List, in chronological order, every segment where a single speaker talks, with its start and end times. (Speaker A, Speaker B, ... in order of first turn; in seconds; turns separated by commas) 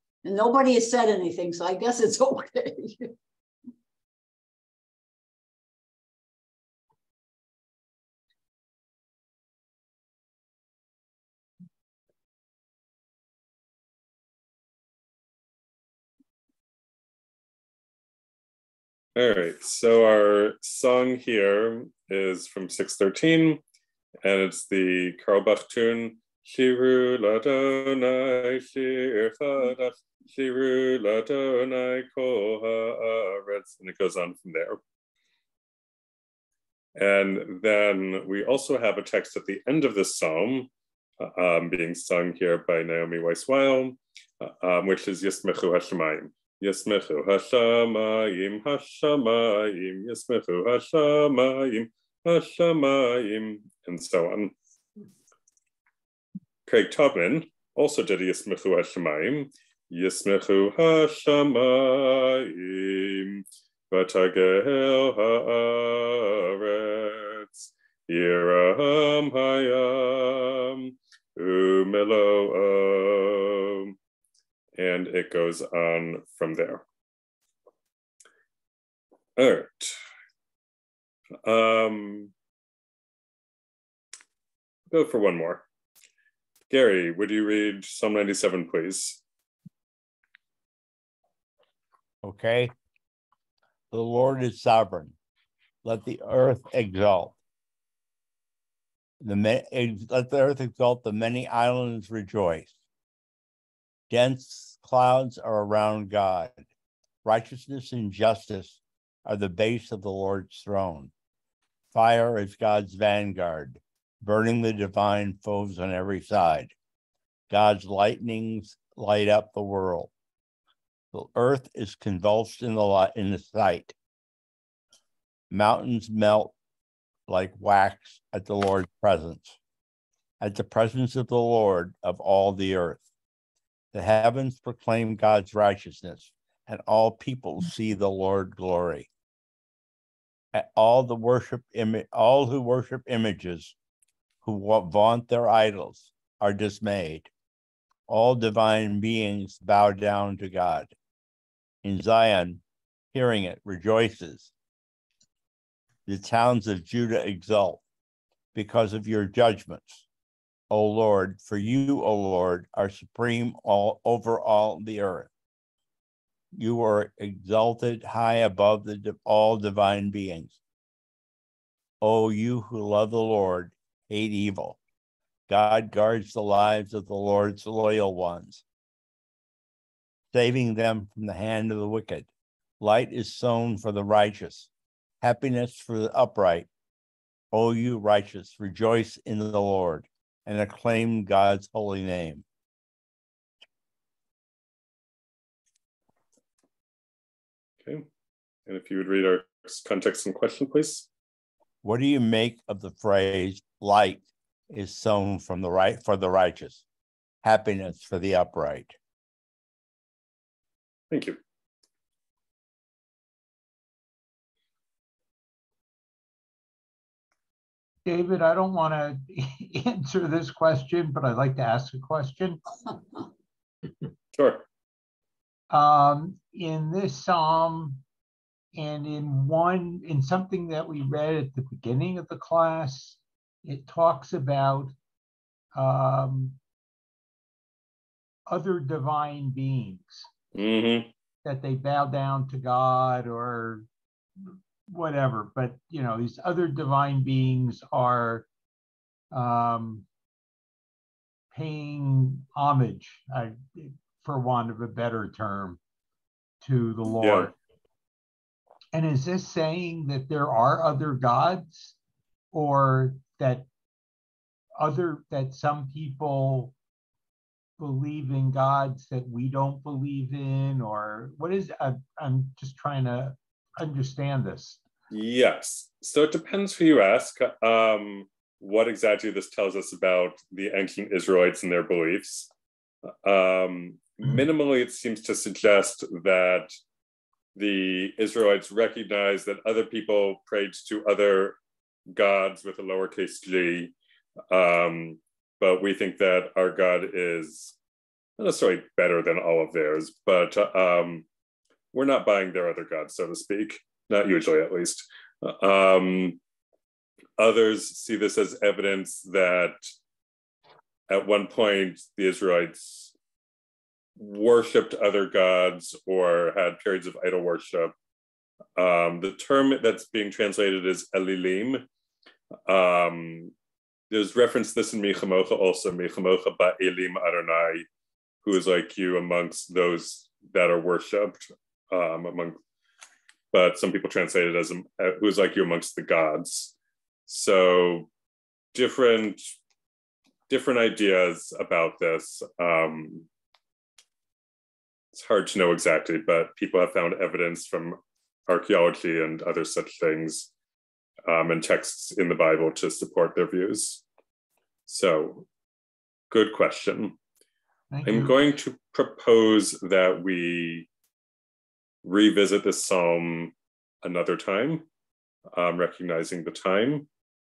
Speaker A: 0.2-3.1, Speaker B: 19.2-23.6, Speaker B: 24.2-34.8, Speaker B: 37.0-54.5, Speaker B: 56.7-73.9, Speaker B: 74.8-76.8, Speaker B: 79.4-80.0, Speaker B: 81.5-82.3, Speaker B: 84.9-85.7, Speaker B: 86.7-89.2, Speaker C: 92.2-92.7, Speaker C: 93.9-95.2, Speaker C: 95.8-97.4, Speaker C: 99.2-102.8, Speaker C: 104.1-106.7, Speaker C: 107.2-111.1, Speaker C: 111.9-116.8, Speaker C: 117.5-120.1, Speaker C: 121.1-124.0, Speaker C: 125.5-126.5, Speaker C: 127.3-129.6, Speaker C: 130.4-133.0, Speaker C: 133.9-139.1, Speaker C: 140.5-143.8, Speaker C: 144.4-147.3, Speaker C: 148.1-150.9, Speaker C: 151.8-152.6, Speaker C: 153.1-154.5, Speaker C: 156.1-157.8, Speaker C: 158.6-160.1, Speaker C: 160.7-165.3, Speaker C: 166.5-170.6, Speaker C: 172.0-174.8, Speaker C: 175.5-178.6, Speaker C: 180.3-182.3, Speaker C: 182.8-184.7, Speaker C: 185.2-186.7, Speaker C: 187.5-192.4, Speaker B: 198.7-201.1, Speaker C: 201.8-206.8, Speaker C: 207.4-208.9, Speaker B: 211.1-211.4, Speaker D: 218.1-222.6, Speaker B: 224.3-224.6, Speaker D: 225.7-228.0, Speaker D: 228.7-234.9, Speaker D: 235.8-236.6, Speaker D: 238.5-240.3, Speaker B: 240.6-241.1, Speaker D: 241.4-243.9, Speaker D: 244.9-248.5, Speaker D: 249.3-250.1, Speaker D: 251.5-255.8, Speaker D: 256.6-257.5, Speaker B: 257.1-257.5, Speaker D: 258.9-261.9, Speaker D: 262.5-263.7, Speaker D: 264.8-266.7, Speaker D: 267.8-274.8, Speaker B: 275.1-282.5, Speaker B: 283.2-286.7, Speaker B: 287.6-291.6, Speaker B: 292.1-293.9, Speaker B: 294.5-297.7, Speaker B: 298.4-301.3, Speaker B: 301.9-306.4, Speaker B: 307.4-309.9, Speaker B: 311.1-313.1, Speaker B: 314.2-317.9, Speaker B: 318.8-321.9, Speaker B: 322.7-323.5, Speaker B: 324.1-327.9, Speaker B: 328.4-332.6, Speaker B: 333.5-336.7, Speaker B: 337.3-338.1, Speaker B: 338.7-339.4, Speaker B: 340.5-343.3, Speaker B: 345.1-350.5, Speaker B: 351.3-354.0, Speaker B: 354.9-355.5, Speaker B: 356.3-357.2, Speaker D: 357.9-358.4, Speaker B: 358.0-360.9, Speaker B: 362.0-364.9, Speaker B: 365.5-367.1